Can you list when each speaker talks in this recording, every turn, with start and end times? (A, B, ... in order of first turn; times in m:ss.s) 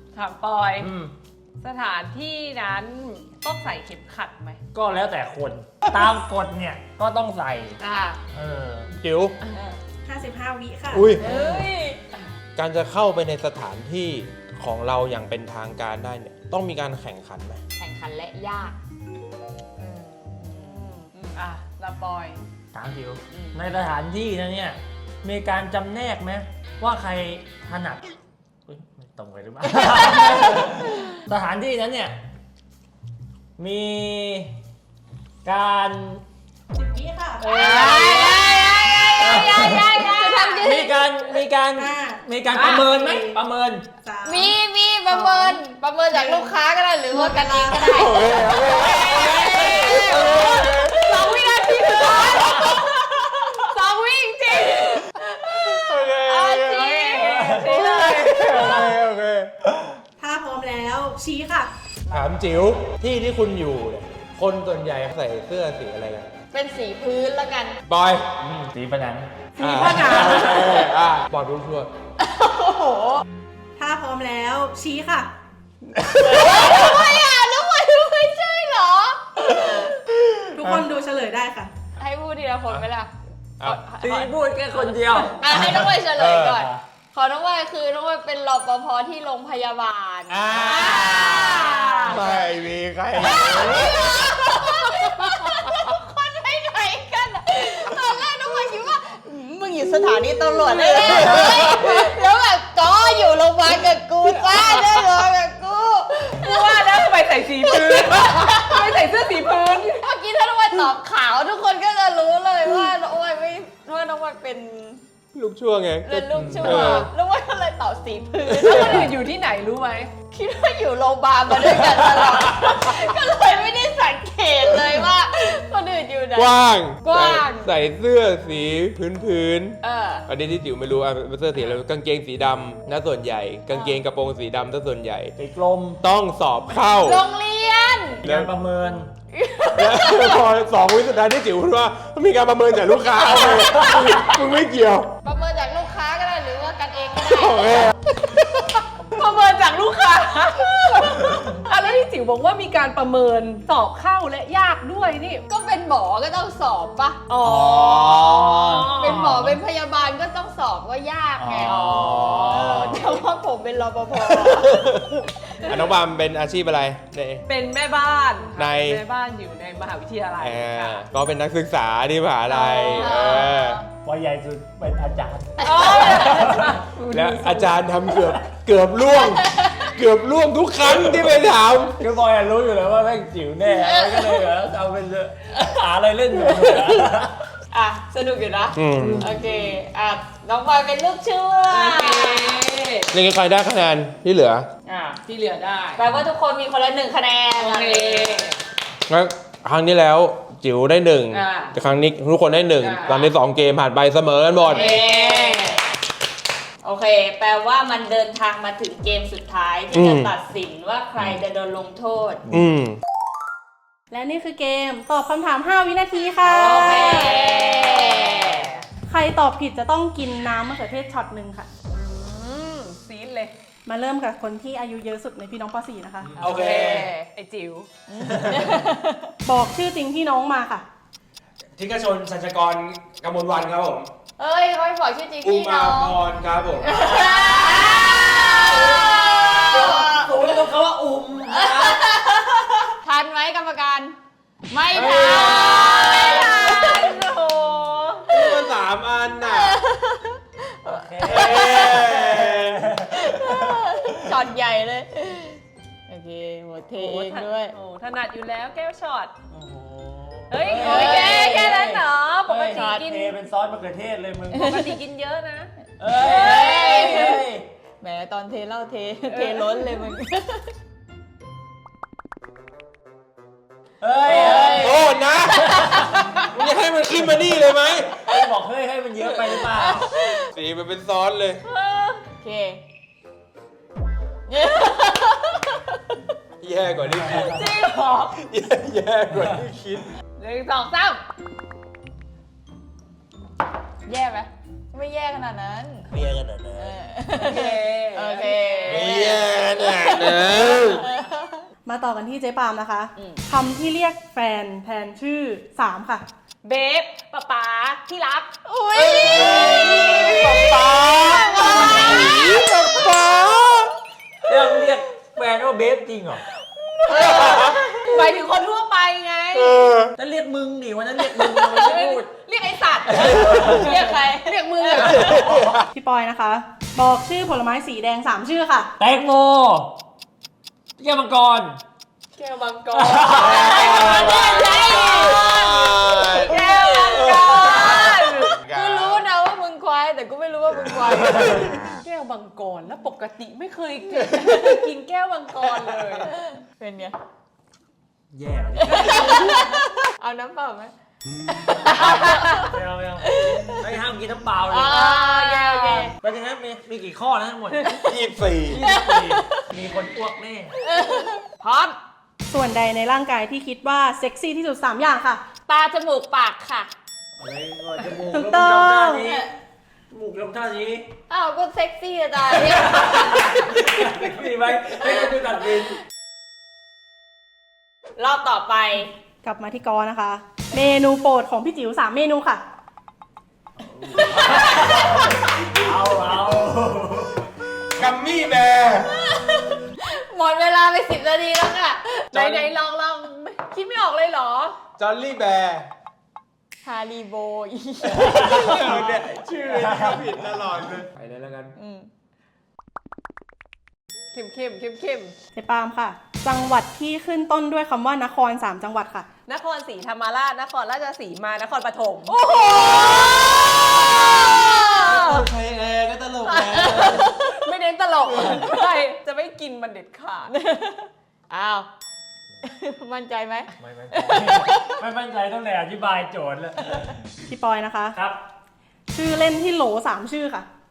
0:00.1-0:00.9 A
0:00.8-0:01.1 B
0:01.6-0:04.6 A
0:04.7-0:07.8 B
0:07.8-0:08.2 A
0:08.3-0:08.9 B
0:09.0-0:09.4 C
0:09.4-0:09.8 A
0:10.0-0:11.1 D
0:10.9-0:11.3 C
0:11.2-0:12.0 E
0:11.3-0:11.6 B
0:12.6-0:17.6 C
0:17.8-0:18.8 E
0:19.8-0:22.4 A
0:20.5-0:20.8 E
0:22.7-0:28.0 B
0:28.7-0:32.2 B
0:33.6-0:34.5 B
0:35.4-0:36.2 B
0:36.7-0:37.5 D
0:37.4-0:38.3 B
0:37.4-0:40.7 A
0:37.5-0:41.1 E
0:39.2-0:40.1 B
0:40.6-0:43.9 B
0:41.8-0:42.3 D
0:42.5-0:43.0 A
0:42.8-0:43.4 D
0:44.0-0:44.6 D
0:44.2-0:53.7 E
0:45.1-0:45.6 D
0:46.1-0:46.5 D
0:47.1-0:48.2 D
0:47.9-0:51.5 C
0:49.3-0:52.9 A
0:53.5-0:55.1 A
0:55.2-0:58.5 E
0:55.7-0:57.0 C
0:56.7-0:58.9 A
0:57.2-0:57.6 B
0:57.7-0:59.5 C
0:58.6-0:58.9 B
1:00.2-1:01.7 D
1:02.1-1:06.3 C
1:06.5-1:07.8 E
1:07.9-1:08.4 C
1:08.4-1:09.3 B
1:09.6-1:10.7 D
1:09.6-1:11.9 C
1:10.1-1:10.6 B
1:12.2-1:13.2 E
1:13.8-1:15.3 D
1:16.0-1:17.2 B
1:16.2-1:20.0 E
1:20.5-1:21.7 D
1:22.0-1:32.5 E
1:24.0-1:25.4 B
1:26.2-1:26.6 C
1:26.5-1:26.8 B
1:30.3-1:34.7 C
1:31.7-1:32.4 A
1:33.2-1:48.9 E
1:33.4-1:33.9 B
1:41.0-1:42.0 C
1:46.3-1:50.0 A
1:49.9-1:55.0 E
1:55.3-1:57.1 C
1:56.1-1:59.2 E
1:56.3-1:56.8 B
1:56.6-1:57.1 A
1:58.5-1:59.1 C
1:58.6-2:00.2 A
2:00.3-2:07.7 E
2:06.4-2:15.4 C
2:09.8-2:10.3 E
2:13.7-2:14.0 E
2:15.4-2:16.0 B
2:16.0-2:17.2 C
2:16.9-2:18.2 E
2:18.2-2:18.5 C
2:18.2-2:19.1 B
2:19.3-2:20.5 E
2:19.8-2:25.1 C
2:23.3-2:24.2 B
2:25.2-2:28.0 E
2:27.3-2:28.0 C
2:29.1-2:35.4 A
2:35.5-2:37.3 E
2:37.3-2:39.3 A
2:37.4-2:39.4 C
2:38.0-2:44.9 E
2:39.1-2:39.6 B
2:41.4-2:43.1 B
2:41.6-2:43.1 C
2:44.3-2:47.4 C
2:47.5-2:51.0 A
2:48.6-2:49.0 C
2:50.4-2:53.8 C
2:52.6-2:53.4 A
2:52.6-2:53.9 E
2:54.0-2:56.8 B
2:55.6-2:57.8 A
2:55.6-2:56.4 E
2:57.1-3:02.0 C
2:59.2-2:59.9 E
3:00.8-3:01.3 B
3:02.0-3:07.5 B
3:03.7-3:04.5 E
3:07.7-3:12.6 E
3:08.8-3:09.4 C
3:09.3-3:09.7 B
3:11.7-3:13.1 A
3:13.1-3:14.7 C
3:14.9-3:15.2 E
3:15.0-3:16.0 A
3:16.0-3:18.5 E
3:17.6-3:18.6 A
3:19.1-3:24.9 C
3:21.3-3:21.8 A
3:22.8-3:23.3 A
3:24.7-3:25.9 E
3:24.7-3:25.9 A
3:26.8-3:32.4 E
3:29.9-3:30.3 C
3:32.5-3:33.0 C
3:34.1-3:37.5 D
3:36.4-3:38.8 A
3:36.5-3:38.8 E
3:39.1-3:41.7 D
3:41.9-3:43.5 A
3:43.9-3:46.4 D
3:46.4-3:47.1 C
3:46.4-3:47.9 A
3:48.1-3:49.3 E
3:48.4-3:48.7 B
3:49.4-3:50.8 D
3:51.8-3:54.1 C
3:54.4-3:56.2 E
3:55.4-3:57.0 C
3:56.8-4:00.5 E
3:57.0-4:02.1 B
4:01.5-4:04.2 E
4:04.7-4:07.3 E
4:04.9-4:07.0 B
4:05.5-4:08.3 A
4:08.3-4:09.8 C
4:09.4-4:12.1 E
4:10.9-4:14.4 B
4:11.2-4:13.0 C
4:13.1-4:17.8 E
4:17.0-4:19.3 A
4:19.5-4:24.7 B
4:20.5-4:23.3 A
4:20.7-4:22.0 E
4:22.7-4:23.3 E
4:24.5-4:24.9 E
4:24.6-4:25.7 A
4:26.0-4:27.7 B
4:26.2-4:27.5 E
4:28.0-4:30.7 E
4:29.3-4:30.1 A
4:34.0-4:36.2 B
4:34.2-4:36.2 E
4:34.5-4:35.8 C
4:36.5-4:38.2 C
4:38.2-4:40.1 B
4:39.4-4:40.5 E
4:40.5-4:41.6 C
4:41.7-4:42.2 A
4:42.3-4:42.8 E
4:44.5-4:46.2 E
4:46.6-4:50.2 C
4:47.4-4:48.4 A
4:50.4-4:51.2 A
4:54.0-4:56.1 E
4:56.1-4:57.0 B
4:56.7-5:01.7 E
4:57.4-4:59.2 A
4:58.9-5:01.1 C
5:01.8-5:06.3 D
5:03.2-5:03.4 E
5:06.6-5:08.6 A
5:08.6-5:13.1 E
5:09.0-5:13.9 C
5:09.2-5:12.3 A
5:14.5-5:16.4 B
5:17.0-5:18.4 E
5:17.1-5:20.0 A
5:17.1-5:17.8 C
5:19.5-5:20.2 C
5:20.2-5:22.3 B
5:21.7-5:25.6 A
5:23.1-5:23.9 B
5:23.2-5:25.4 E
5:25.2-5:25.8 C
5:25.9-5:28.9 D
5:29.0-5:30.0 B
5:31.0-5:31.8 B
5:32.4-5:38.6 A
5:32.9-5:33.8 B
5:33.3-5:41.8 E
5:33.4-5:39.2 C
5:41.0-5:41.6 C
5:42.0-5:46.4 A
5:46.3-5:47.2 E
5:48.3-5:49.5 B
5:48.9-5:50.9 E
5:48.9-5:49.6 A
5:51.5-5:54.0 E
5:51.9-5:55.2 B
5:54.7-5:56.1 E
5:54.9-5:56.1 A
5:56.2-5:58.0 B
5:58.0-5:58.8 C
5:58.7-6:00.8 B
5:58.8-5:59.6 E
6:00.8-6:02.0 E
6:02.5-6:05.4 D
6:05.7-6:06.9 E
6:07.4-6:09.5 B
6:08.3-6:09.3 D
6:10.1-6:11.1 B
6:11.3-6:13.8 E
6:12.6-6:16.0 B
6:15.0-6:15.4 E
6:18.2-6:19.1 E
6:19.4-6:22.6 D
6:24.0-6:27.5 B
6:24.1-6:25.5 E
6:28.0-6:29.2 C
6:29.1-6:32.3 E
6:32.3-6:34.8 A
6:32.3-6:32.8 C
6:35.0-6:35.9 C
6:36.8-6:38.7 E
6:38.2-6:40.4 B
6:38.3-6:41.8 C
6:41.8-6:42.1 E
6:44.3-6:45.4 A
6:45.6-6:49.3 D
6:49.5-6:55.5 A
6:52.4-6:55.2 E
6:54.9-6:57.3 C
6:56.4-7:00.5 A
6:56.8-6:57.5 E
7:00.5-7:01.9 E
7:02.6-7:05.0 E
7:03.8-7:07.2 B
7:07.5-7:08.2 D
7:08.2-7:08.4 B
7:09.1-7:10.7 D